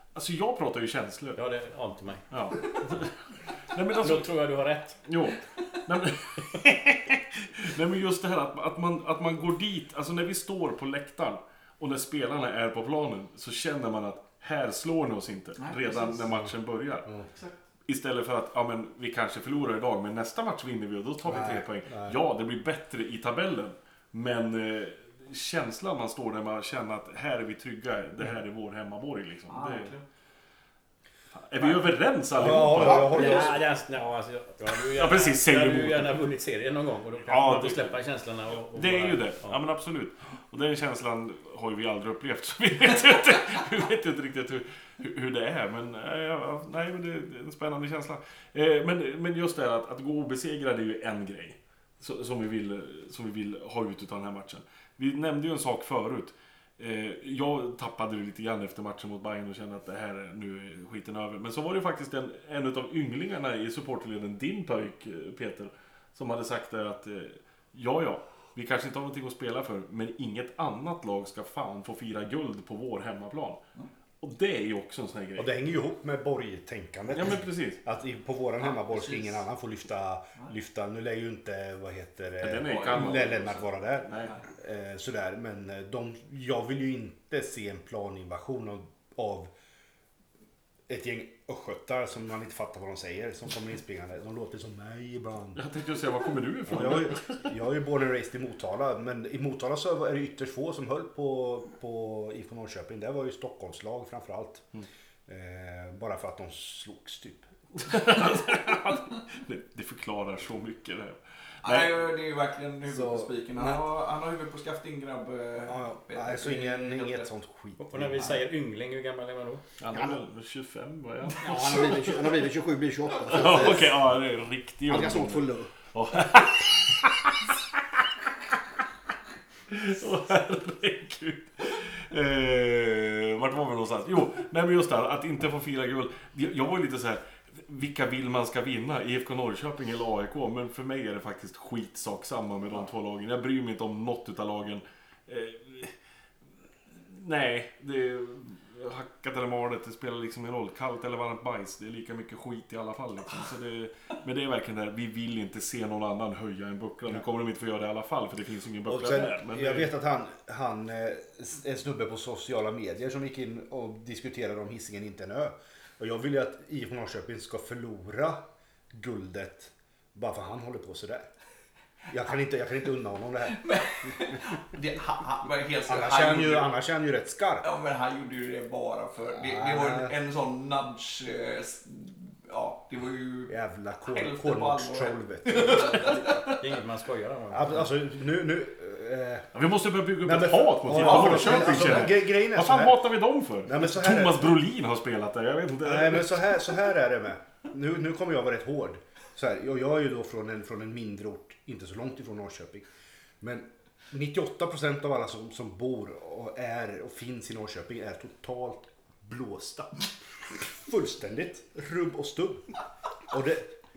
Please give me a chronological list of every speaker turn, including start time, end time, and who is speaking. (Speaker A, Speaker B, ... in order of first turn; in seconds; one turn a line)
Speaker A: 0.1-1.4
Speaker B: 1.4-2.3
Speaker A: 2.3-4.3
Speaker B: 4.0-5.0
Speaker A: 5.0-17.1
Speaker C: 15.6-16.3
Speaker C: 17.3-17.6
Speaker A: 17.9-29.9
Speaker D: 21.2-22.2
Speaker C: 29.5-30.1
Speaker A: 31.4-33.4
Speaker D: 32.4-33.6
Speaker B: 32.5-39.6
Speaker A: 34.8-36.2
Speaker A: 37.3-38.0
Speaker A: 38.6-73.6
Speaker A: 74.2-75.5
Speaker D: 75.4-89.5
Speaker A: 77.1-77.8
Speaker C: 78.6-79.4
Speaker A: 82.4-84.3
Speaker C: 82.7-83.6
Speaker D: 90.9-95.6
Speaker A: 95.5-97.5
Speaker D: 96.7-104.7
Speaker D: 105.3-107.5
Speaker A: 107.8-112.0
Speaker C: 111.6-117.3
Speaker D: 112.9-113.8
Speaker D: 115.7-118.4
Speaker B: 117.8-119.6
Speaker A: 119.8-122.5
Speaker E: 119.9-120.2
Speaker E: 121.4-124.0
Speaker A: 123.2-127.5
Speaker E: 124.9-125.7
Speaker A: 129.7-145.9
Speaker A: 146.9-159.9
Speaker D: 158.9-171.3
Speaker D: 172.1-174.3
Speaker C: 173.5-176.7
Speaker D: 175.9-177.7
Speaker C: 177.6-183.6
Speaker D: 179.4-180.1
Speaker D: 183.5-186.4
Speaker C: 184.1-186.7
Speaker B: 186.6-187.9
Speaker D: 187.5-189.5
Speaker A: 189.5-196.4
Speaker D: 190.2-193.0
Speaker C: 190.9-192.1
Speaker D: 193.7-194.6
Speaker D: 195.8-202.8
Speaker D: 203.4-212.7
Speaker D: 213.3-213.7